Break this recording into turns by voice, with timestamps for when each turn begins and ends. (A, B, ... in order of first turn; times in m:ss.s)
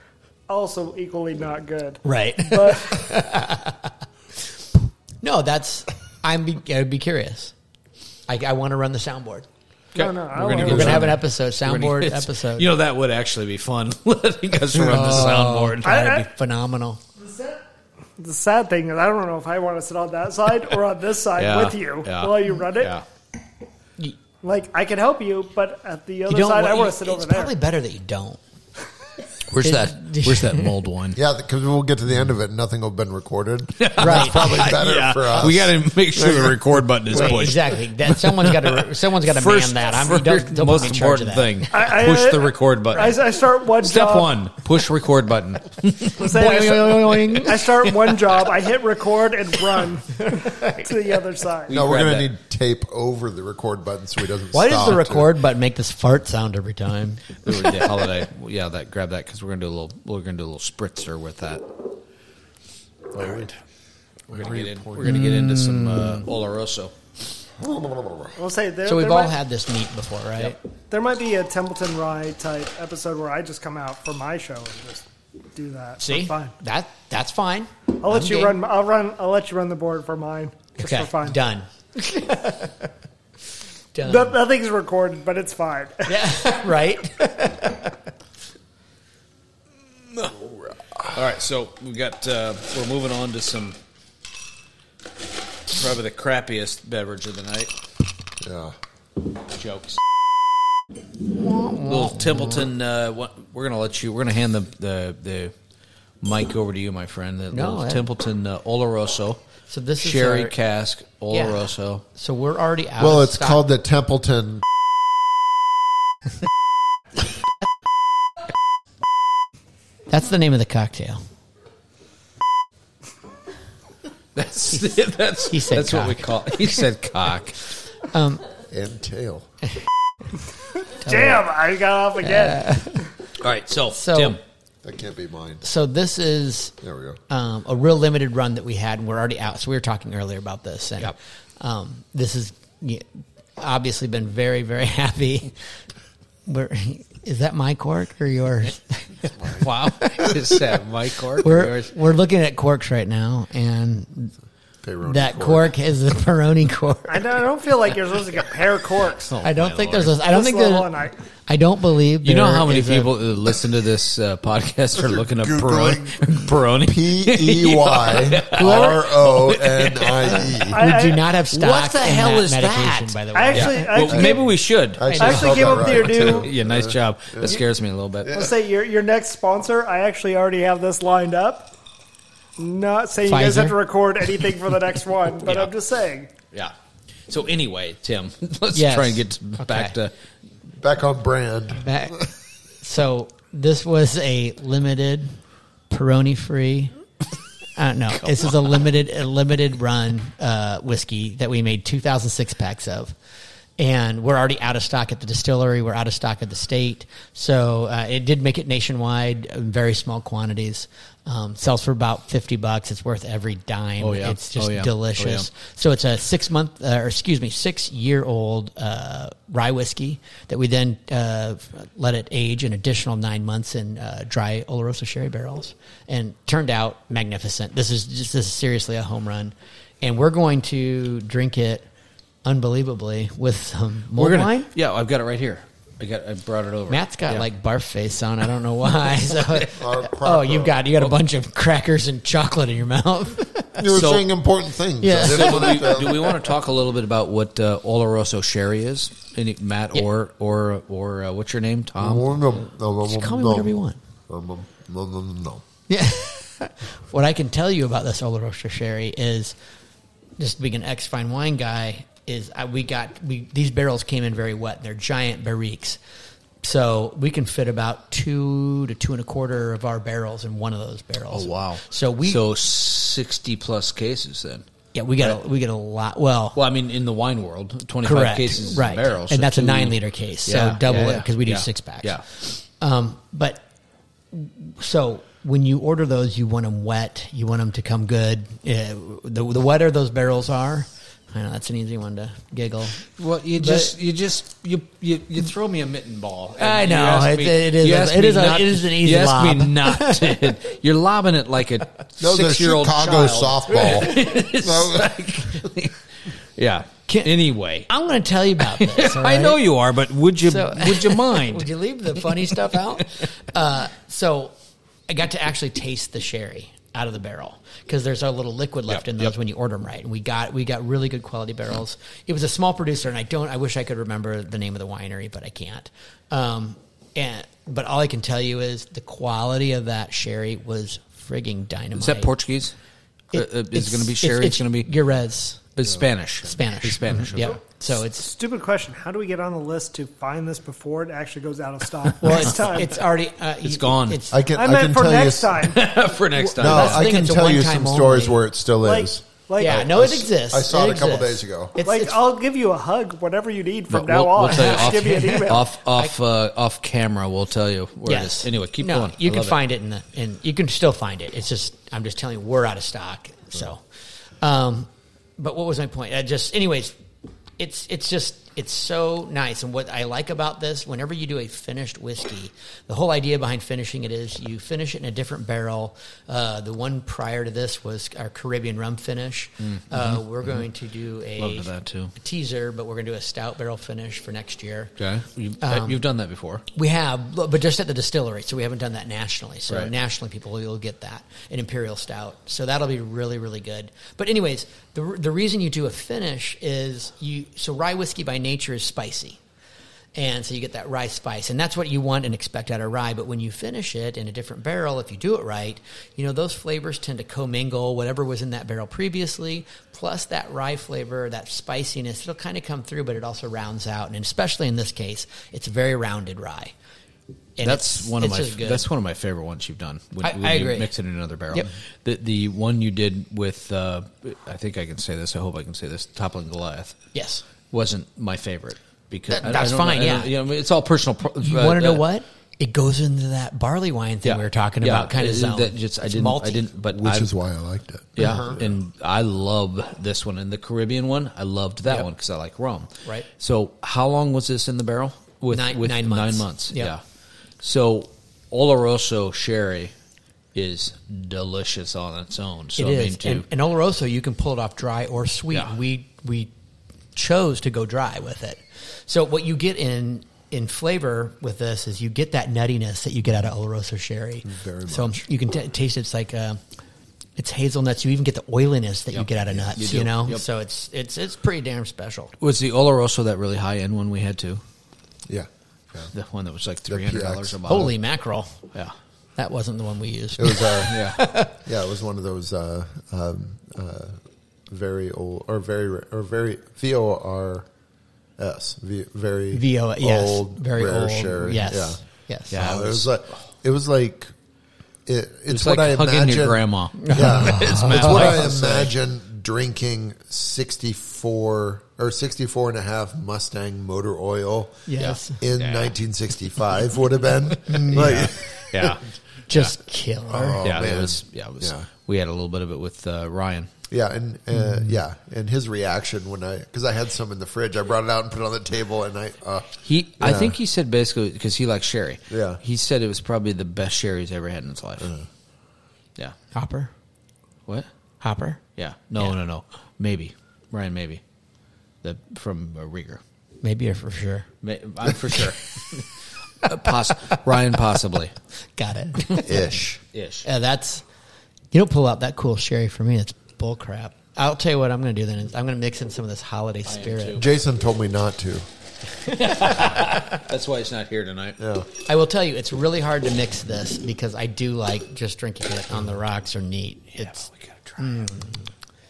0:00.5-0:03.1 A
0:02.0-0:03.9 B
0:05.2-0:07.5 B
0:08.3-0:09.5 B
0:09.9-0:16.0 C
0:09.9-0:11.1 A
0:10.6-0:12.7 B
0:14.8-0:17.0 B
0:15.8-0:16.3 A
0:17.2-0:17.6 A
0:18.2-0:22.9 A
0:21.4-0:23.0 C
0:24.4-0:27.5 A
0:26.3-0:28.4 B
0:29.5-0:31.2 C
0:29.6-0:30.7 B
0:31.1-0:37.5 D
0:33.8-0:48.5 C
0:34.0-0:34.7 B
0:37.1-0:41.6 B
0:41.7-0:44.3 A
0:46.2-0:51.8 A
0:46.2-0:47.7 B
0:50.3-0:50.9 B
0:51.6-0:52.3 C
0:51.7-0:55.3 D
0:54.5-0:57.7 B
0:57.4-1:01.6 C
1:03.1-1:03.5 D
1:03.1-1:03.5 C
1:04.3-1:05.2 D
1:04.3-1:06.9 C
1:05.0-1:06.2 B
1:07.6-1:08.4 D
1:08.4-1:09.4 A
1:08.8-1:10.6 B
1:10.9-1:16.5 A
1:16.0-1:18.6 B
1:18.0-1:21.4 A
1:20.8-1:22.9 B
1:23.9-1:24.4 B
1:24.0-1:26.2 A
1:26.0-1:27.9 B
1:30.4-1:31.2 D
1:31.1-1:33.8 C
1:35.7-1:37.7 C
1:38.4-1:38.8 D
1:39.5-1:40.0 C
1:41.3-1:42.6 B
1:41.8-1:45.5 C
1:46.2-1:49.4 C
1:47.5-1:48.0 B
1:49.7-1:50.5 B
1:50.0-1:52.0 C
1:51.3-1:53.6 B
1:53.0-1:54.6 D
2:00.1-2:01.2 B
2:04.4-2:07.6 C
2:05.5-2:06.3 B
2:08.0-2:08.4 B
2:08.7-2:09.4 D
2:11.0-2:11.5 B
2:11.0-2:12.6 A
2:12.2-2:13.1 B
2:13.4-2:14.4 C
2:13.9-2:14.4 B
2:14.8-2:15.6 D
2:15.6-2:16.7 B
2:16.8-2:17.2 D
2:17.3-2:23.1 B
2:23.6-2:25.5 B
2:26.4-2:29.6 B
2:29.5-2:31.9 C
2:31.4-2:34.3 B
2:34.8-2:35.7 D
2:35.0-2:37.3 B
2:37.1-2:39.3 A
2:39.2-2:40.1 C
2:39.4-2:43.1 B
2:40.2-2:41.1 A
2:42.2-2:50.6 C
2:45.0-2:50.8 D
2:50.7-2:51.2 A
2:50.7-2:54.0 B
2:51.5-2:58.4 C
2:53.3-2:54.5 A
2:54.0-2:54.4 D
2:54.9-2:57.6 D
2:55.1-2:56.0 B
2:55.1-2:56.5 A
2:58.2-2:58.5 D
2:58.3-3:01.7 A
3:02.6-3:06.3 A
3:03.2-3:03.8 B
3:05.4-3:05.7 C
3:07.3-3:10.1 C
3:08.7-3:09.9 B
3:10.8-3:12.2 D
3:11.8-3:12.2 B
3:12.8-3:15.4 B
3:15.9-3:17.0 B
3:17.8-3:23.1 B
3:23.8-3:51.8 B
3:34.0-3:35.5 C
3:52.4-3:54.7 B
3:54.2-3:57.5 C
3:56.9-4:03.8 B
3:59.7-4:00.8 D
4:03.8-4:06.4 D
4:03.9-4:04.2 C
4:05.0-4:06.0 B
4:05.2-4:12.3 C
4:12.0-4:13.7 D
4:13.0-4:14.0 B
4:14.3-4:15.6 D
4:15.9-4:19.5 B
4:20.4-4:26.0 B
4:26.6-4:32.4 B
4:31.3-4:34.6 C
4:34.9-4:36.6 B
4:36.5-4:42.2 C
4:38.0-4:43.6 B
4:44.3-4:53.9 B
4:53.2-5:06.0 C
4:56.6-5:00.4 B
5:02.2-5:05.2 D
5:06.6-5:07.9 C
5:07.1-5:07.3 B
5:07.9-5:09.6 B
5:08.6-5:12.8 C
5:10.4-5:14.5 B
5:15.1-5:32.3 B
5:18.9-5:19.3 C
5:32.0-5:32.7 C
5:33.3-5:34.9 C
5:33.3-5:35.6 B
5:35.8-5:37.6 C
5:36.4-5:38.3 B
5:37.4-5:43.0 A
5:42.2-5:44.4 B
5:43.6-5:44.2 C
5:44.3-5:45.7 D
5:44.5-5:45.8 A
5:45.6-5:47.1 C
5:46.4-5:48.4 B
5:46.6-5:51.8 D
5:48.8-5:49.8 A
5:49.6-5:52.2 B
5:51.8-5:55.7 A
5:53.9-5:59.6 C
5:54.5-5:56.1 B
5:58.0-6:03.8 B
6:04.4-6:07.0 B
6:07.6-6:24.9 B
6:19.6-6:20.6 C
6:21.4-6:22.1 C
6:25.0-6:26.6 C
6:25.6-6:26.0 B
6:26.7-6:39.4 B
6:40.1-6:56.7 B
6:57.6-6:58.8 B
6:57.6-7:07.0 C
7:00.2-7:00.9 B
7:07.1-7:07.4 B
7:07.7-7:12.0 C
7:09.3-7:10.3 B
7:11.4-7:16.6 B
7:14.2-7:17.3 C
7:16.9-7:18.8 D
7:18.2-7:27.0 C
7:18.2-7:18.5 B
7:25.5-7:26.9 B
7:27.6-7:29.9 C
7:30.5-7:33.4 C
7:32.8-7:36.5 B
7:37.1-7:46.6 B
7:44.4-7:45.2 D
7:47.4-7:52.3 B
7:49.1-7:50.4 C
7:52.4-7:54.6 C
7:55.3-7:56.1 D
7:56.1-7:57.9 C
7:56.9-7:57.9 D
7:57.7-7:58.5 B
7:59.4-8:01.5 B
8:00.4-8:07.7 D
8:00.9-8:01.2 C
8:08.4-8:14.3 D
8:09.5-8:12.5 B
8:12.5-8:13.4 C
8:15.0-8:24.9 D
8:15.5-8:18.9 C
8:17.0-8:18.4 B
8:24.9-8:25.4 B
8:25.0-8:25.9 C
8:25.4-8:29.0 D
8:27.7-8:28.3 B
8:27.9-8:29.7 C
8:29.5-8:30.6 B
8:30.3-8:31.9 D
8:30.6-8:33.7 C
8:33.9-8:40.6 D
8:34.5-8:34.9 B
8:39.8-8:45.1 C
8:42.3-8:42.6 D
8:45.0-8:45.3 D
8:46.5-8:46.9 B
8:48.2-8:48.6 B
8:48.8-8:51.2 C
8:52.0-8:53.2 C
8:53.6-8:54.5 B
8:54.6-8:56.1 C
8:56.6-8:58.3 C
8:58.8-8:59.5 B
8:59.4-9:00.0 D
9:00.1-9:00.4 C
9:00.4-9:01.0 B
9:01.7-9:07.4 B
9:06.8-9:07.5 C
9:07.4-9:08.6 D
9:09.2-9:10.4 B
9:09.3-9:11.6 C
9:11.6-9:11.9 D
9:12.0-9:17.5 B
9:17.2-9:18.3 C
9:18.0-9:18.6 B